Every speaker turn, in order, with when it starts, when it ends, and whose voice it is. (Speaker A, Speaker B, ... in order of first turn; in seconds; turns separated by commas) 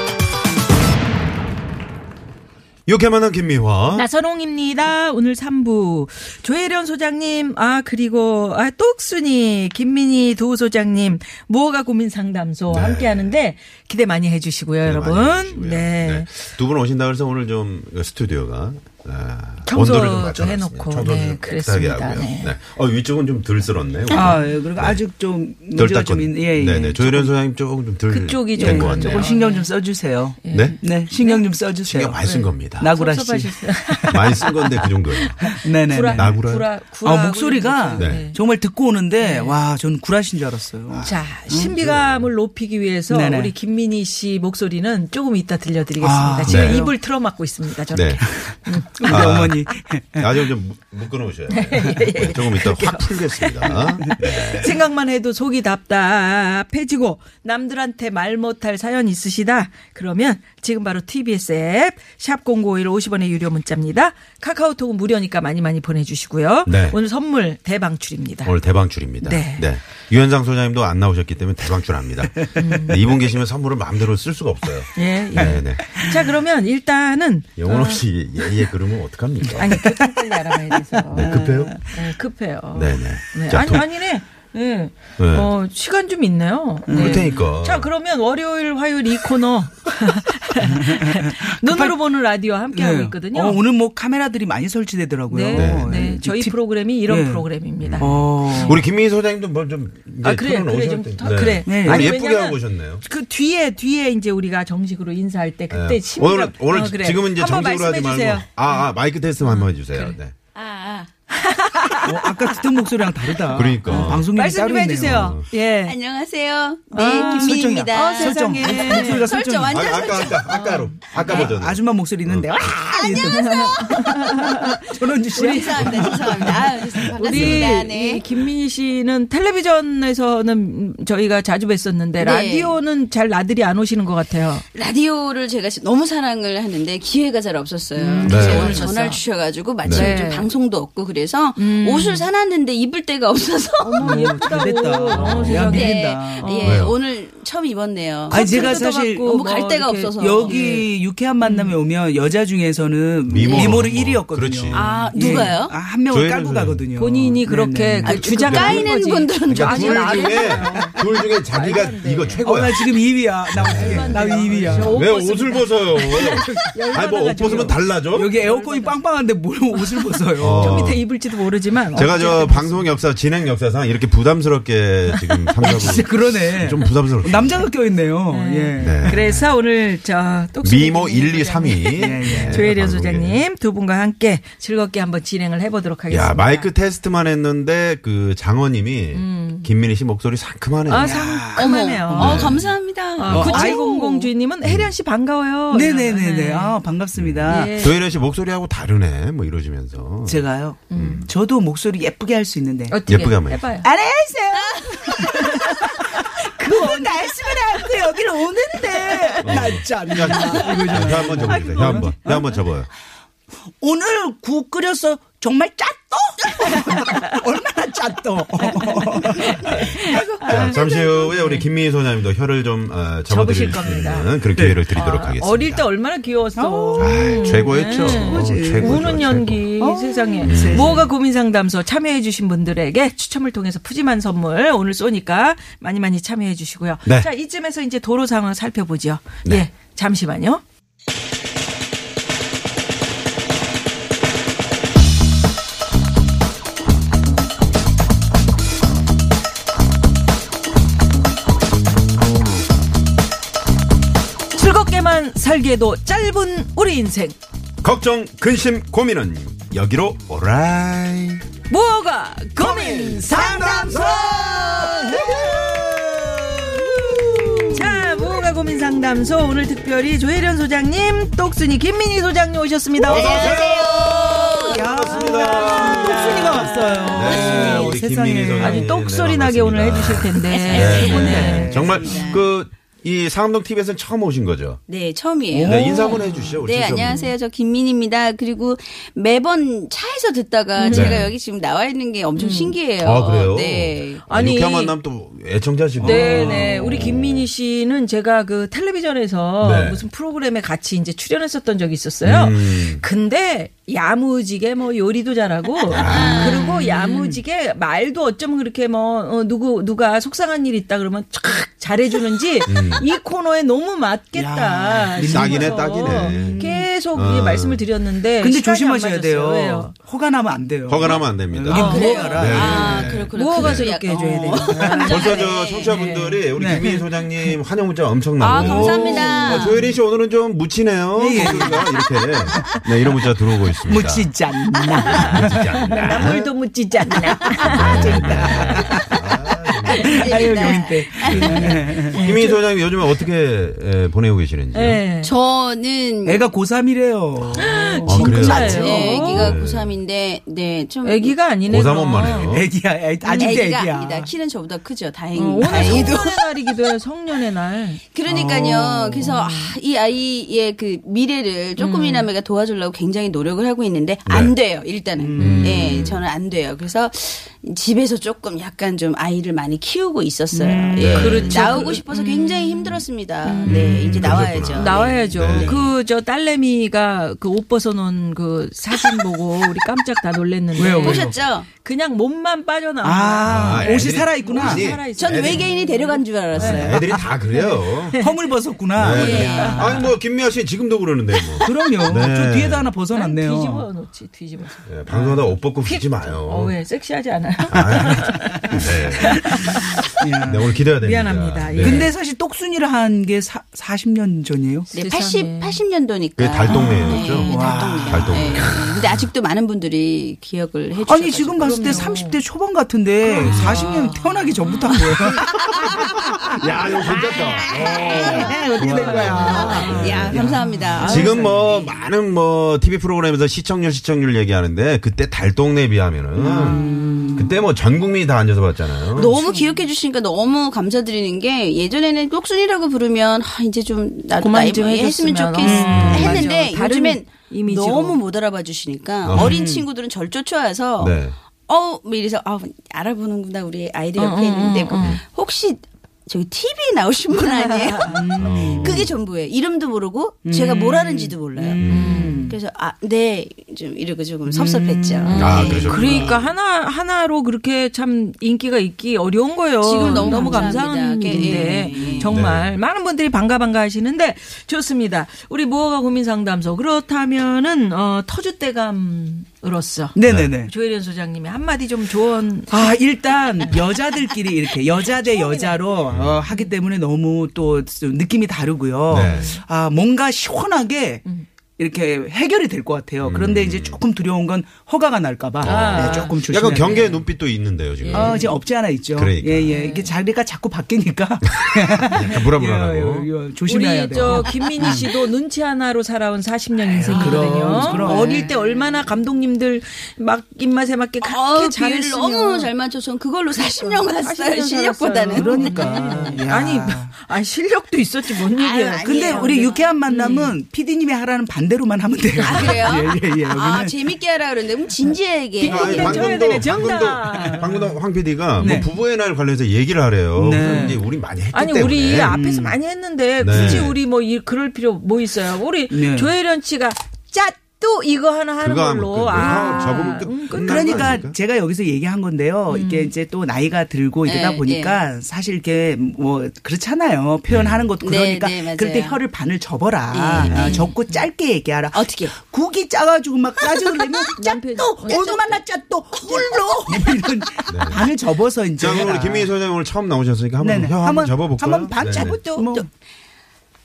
Speaker A: 2.9-4.0, Speaker B: 3.9-16.3, Speaker A: 12.7-13.3, Speaker A: 14.8-25.0, Speaker B: 19.6-22.5, Speaker C: 24.1-27.3, Speaker A: 25.7-29.3, Speaker B: 28.1-29.7, Speaker C: 28.6-32.2, Speaker B: 30.4-31.4, Speaker A: 31.8-32.9, Speaker B: 32.2-34.5, Speaker C: 32.8-34.5, Speaker A: 34.1-35.5, Speaker B: 35.1-38.4, Speaker C: 35.4-36.4, Speaker A: 36.1-36.6, Speaker C: 37.0-41.7, Speaker A: 38.0-38.2, Speaker B: 39.2-39.6, Speaker A: 40.9-42.3, Speaker B: 41.0-49.2, Speaker C: 43.1-43.5, Speaker C: 46.0-46.9, Speaker A: 46.5-46.9, Speaker A: 47.9-48.2, Speaker C: 49.0-50.4, Speaker A: 49.0-54.8, Speaker B: 51.5-68.5, Speaker A: 66.7-67.0, Speaker A: 68.4-76.0, Speaker B: 69.2-69.7, Speaker B: 72.5-73.1, Speaker B: 75.0-78.0, Speaker C: 75.3-76.1, Speaker A: 77.6-79.8, Speaker B: 79.5-93.6, Speaker C: 79.7-80.1, Speaker A: 81.1-81.8, Speaker C: 81.1-81.8, Speaker A: 82.7-83.8, Speaker A: 85.2-85.5, Speaker C: 86.9-87.5, Speaker A: 86.9-87.9, Speaker C: 90.6-92.0, Speaker C: 92.7-96.5, Speaker B: 95.3-98.8, Speaker A: 95.5-96.1, Speaker C: 97.1-97.4, Speaker A: 97.8-103.0, Speaker C: 98.0-98.8, Speaker B: 100.2-108.8, Speaker C: 101.7-102.1, Speaker A: 105.7-110.3, Speaker B: 109.4-110.2, Speaker D: 110.5-111.1, Speaker B: 111.3-112.6, Speaker C: 112.0-115.3, Speaker A: 113.5-114.3, Speaker B: 113.8-116.0, Speaker A: 115.0-115.5, Speaker D: 115.8-120.6, Speaker B: 116.9-119.3, Speaker C: 117.0-119.9, Speaker A: 119.7-122.7, Speaker B: 120.4-121.5, Speaker C: 121.2-127.8, Speaker D: 121.2-121.5, Speaker D: 122.8-128.2, Speaker B: 123.2-124.7, Speaker B: 127.2-134.6, Speaker D: 132.2-132.8, Speaker D: 134.7-144.3, Speaker C: 138.0-138.8, Speaker B: 138.1-139.2, Speaker A: 138.2-138.8, Speaker A: 139.8-140.1, Speaker B: 139.9-140.5, Speaker B: 141.6-142.2, Speaker B: 143.8-146.8, Speaker C: 144.0-146.4, Speaker A: 145.1-145.7, Speaker D: 145.6-150.6, Speaker A: 146.6-146.9, Speaker C: 148.3-149.3, Speaker B: 148.3-150.9, Speaker C: 150.2-158.2, Speaker B: 151.4-151.8, Speaker A: 153.3-154.9, Speaker D: 153.4-153.8, Speaker D: 154.7-155.8, Speaker B: 155.1-155.5, Speaker A: 156.1-156.8, Speaker B: 156.9-162.5, Speaker D: 158.1-160.6, Speaker A: 158.2-158.9, Speaker A: 159.4-162.9, Speaker C: 162.4-165.0, Speaker A: 163.5-168.3, Speaker B: 163.6-169.0, Speaker C: 166.2-166.7, Speaker C: 168.1-170.8, Speaker B: 169.8-172.9, Speaker A: 170.4-171.0, Speaker A: 171.9-177.7, Speaker C: 175.6-179.2, Speaker B: 178.3-186.7, Speaker A: 178.8-179.5, Speaker A: 180.6-183.4, Speaker C: 182.0-182.7, Speaker A: 186.1-191.3, Speaker B: 189.1-189.7, Speaker B: 190.9-192.6, Speaker C: 190.9-192.7, Speaker D: 191.6-193.8, Speaker A: 192.2-192.7, Speaker B: 193.2-196.8, Speaker C: 193.2-194.3, Speaker A: 193.3-193.7, Speaker A: 194.6-194.9, Speaker C: 195.7-197.8, Speaker A: 197.2-201.3, Speaker B: 197.5-198.0, Speaker C: 200.2-203.0, Speaker B: 200.9-201.2, Speaker B: 202.9-203.9, Speaker A: 203.1-203.6, Speaker C: 203.8-212.5, Speaker D: 204.6-205.5, Speaker B: 205.3-205.9, Speaker B: 206.4-207.3, Speaker B: 209.1-209.4, Speaker A: 209.4-212.9, Speaker B: 210.2-212.2, Speaker C: 213.8-220.6, Speaker B: 216.6-217.4, Speaker B: 218.7-221.7, Speaker A: 219.6-225.8, Speaker B: 223.3-224.3, Speaker C: 224.5-224.8, Speaker B: 224.9-240.6, Speaker C: 226.6-229.3, Speaker A: 227.0-229.6, Speaker C: 229.8-231.1, Speaker A: 230.4-231.1, Speaker B: 254.5-257.4, Speaker A: 257.8-261.4, Speaker B: 261.7-265.5, Speaker C: 262.6-267.8, Speaker A: 263.8-264.4, Speaker D: 263.9-265.5, Speaker A: 265.5-266.6, Speaker D: 267.1-267.6, Speaker B: 267.7-273.6, Speaker D: 273.0-277.9, Speaker A: 273.0-284.8, Speaker C: 273.4-278.8, Speaker B: 278.6-281.8, Speaker D: 280.5-282.4, Speaker C: 280.7-282.3, Speaker D: 284.9-294.2, Speaker C: 285.5-286.3, Speaker A: 285.6-287.2, Speaker B: 290.8-291.3, Speaker A: 290.9-291.3, Speaker B: 292.4-292.8, Speaker A: 293.0-297.4, Speaker B: 294.2-294.9, Speaker C: 296.0-296.9, Speaker B: 296.0-319.9, Speaker A: 299.6-300.0, Speaker A: 302.2-303.0, Speaker A: 305.9-306.6, Speaker D: 306.0-306.9, Speaker C: 306.3-307.4, Speaker A: 312.7-313.1, Speaker C: 314.3-316.9, Speaker A: 315.3-317.8, Speaker C: 318.4-323.1, Speaker A: 320.9-323.9, Speaker D: 321.7-326.2, Speaker B: 321.7-326.9, Speaker C: 324.5-325.2, Speaker A: 325.1-334.3, Speaker C: 326.5-327.0, Speaker B: 328.4-329.8, Speaker D: 328.5-329.8, Speaker C: 331.1-331.9, Speaker C: 333.9-336.0, Speaker B: 335.0-338.8, Speaker A: 335.1-336.5, Speaker A: 337.7-340.6, Speaker C: 337.7-339.2, Speaker D: 340.0-342.3, Speaker C: 340.0-342.2, Speaker A: 341.2-345.0, Speaker B: 342.1-342.6, Speaker B: 344.7-345.3, Speaker D: 345.2-346.4, Speaker C: 346.2-349.2, Speaker A: 347.5-350.0, Speaker B: 347.6-349.5, Speaker D: 348.2-351.4, Speaker B: 351.0-352.6, Speaker A: 351.7-352.7, Speaker C: 352.4-354.3, Speaker B: 353.2-353.6, Speaker D: 353.3-356.9, Speaker B: 355.3-358.0, Speaker A: 355.7-356.1, Speaker D: 358.1-375.9, Speaker C: 358.3-358.9, Speaker A: 358.3-358.6, Speaker B: 359.1-359.7, Speaker B: 361.8-362.3, Speaker A: 364.3-364.5, Speaker C: 365.1-365.9, Speaker A: 365.4-366.2, Speaker B: 365.4-365.7, Speaker C: 370.5-371.9, Speaker A: 370.9-371.6, Speaker B: 371.1-386.9, Speaker A: 373.6-375.8, Speaker C: 380.8-381.4, Speaker D: 381.0-381.7, Speaker C: 383.0-384.9, Speaker A: 383.4-385.6, Speaker D: 385.1-387.6, Speaker A: 386.5-388.2, Speaker C: 386.6-387.2, Speaker B: 387.5-388.4, Speaker C: 388.2-390.1, Speaker A: 388.9-392.9, Speaker D: 389.0-390.0, Speaker C: 391.6-393.9, Speaker B: 393.1-394.8, Speaker A: 394.8-396.7, Speaker C: 395.1-395.5, Speaker B: 395.9-400.1, Speaker A: 397.7-399.8, Speaker C: 400.2-400.7, Speaker A: 400.4-402.1, Speaker B: 401.0-402.1, Speaker C: 401.8-404.9, Speaker D: 404.9-412.0, Speaker B: 404.9-405.8, Speaker A: 406.4-407.5, Speaker B: 406.7-407.7, Speaker C: 406.7-408.7, Speaker A: 408.1-409.3, Speaker C: 411.0-416.6, Speaker B: 411.6-412.4, Speaker B: 413.3-414.7, Speaker A: 413.4-414.0, Speaker D: 413.4-413.7, Speaker D: 415.0-416.1, Speaker A: 416.5-420.5, Speaker D: 416.6-421.8, Speaker C: 417.8-421.6, Speaker B: 418.9-421.4, Speaker A: 421.0-426.8, Speaker C: 426.4-427.6, Speaker A: 427.4-429.3, Speaker D: 429.1-456.3, Speaker C: 429.2-429.7, Speaker B: 434.4-438.2, Speaker C: 435.6-436.4, Speaker A: 435.9-436.4, Speaker A: 439.2-439.6, Speaker C: 439.3-439.9, Speaker A: 441.0-441.3, Speaker B: 444.2-445.2, Speaker B: 447.4-448.2, Speaker C: 448.1-449.1, Speaker A: 448.4-449.1, Speaker C: 450.4-452.6, Speaker A: 451.8-452.4, Speaker B: 451.9-452.4, Speaker C: 454.5-455.9, Speaker B: 455.2-472.9, Speaker A: 455.3-456.5, Speaker D: 459.8-462.3, Speaker C: 460.0-460.7, Speaker C: 461.3-462.3, Speaker A: 462.3-462.7, Speaker C: 470.1-470.7, Speaker A: 470.2-470.5, Speaker C: 472.7-481.2, Speaker B: 475.3-475.8, Speaker A: 476.1-476.4, Speaker A: 479.1-479.6, Speaker B: 479.2-479.6, Speaker C: 481.8-487.2, Speaker A: 483.2-484.0, Speaker A: 485.6-488.4, Speaker B: 485.6-486.3, Speaker B: 488.0-488.5, Speaker C: 488.1-495.1, Speaker A: 489.1-489.7, Speaker B: 489.7-490.1, Speaker A: 491.6-493.3, Speaker B: 493.7-502.7, Speaker C: 496.9-498.5, Speaker D: 497.8-498.8, Speaker D: 501.2-506.4, Speaker B: 503.6-510.5, Speaker C: 505.3-507.1, Speaker D: 508.5-509.9, Speaker C: 509.0-513.9, Speaker D: 512.4-516.6, Speaker B: 512.4-512.9, Speaker B: 515.6-517.7, Speaker A: 515.6-522.4, Speaker C: 517.3-518.0, Speaker B: 518.6-518.9, Speaker C: 518.6-518.9, Speaker C: 520.4-521.0, Speaker B: 520.6-521.0, Speaker B: 521.5-531.2, Speaker C: 522.3-522.8, Speaker A: 523.4-524.0, Speaker C: 523.5-523.9, Speaker C: 525.9-526.3, Speaker A: 528.6-531.4, Speaker C: 529.4-529.7, Speaker C: 530.6-549.5, Speaker B: 532.7-533.1, Speaker D: 534.2-535.0, Speaker A: 537.5-537.9, Speaker D: 538.0-539.2, Speaker D: 540.1-540.9, Speaker A: 540.4-540.9, Speaker B: 540.5-541.3, Speaker D: 541.9-542.3, Speaker D: 543.6-545.6, Speaker B: 544.4-545.5, Speaker D: 546.1-547.7, Speaker A: 547.7-548.1, Speaker A: 548.8-552.4, Speaker C: 550.6-552.9, Speaker D: 552.0-552.9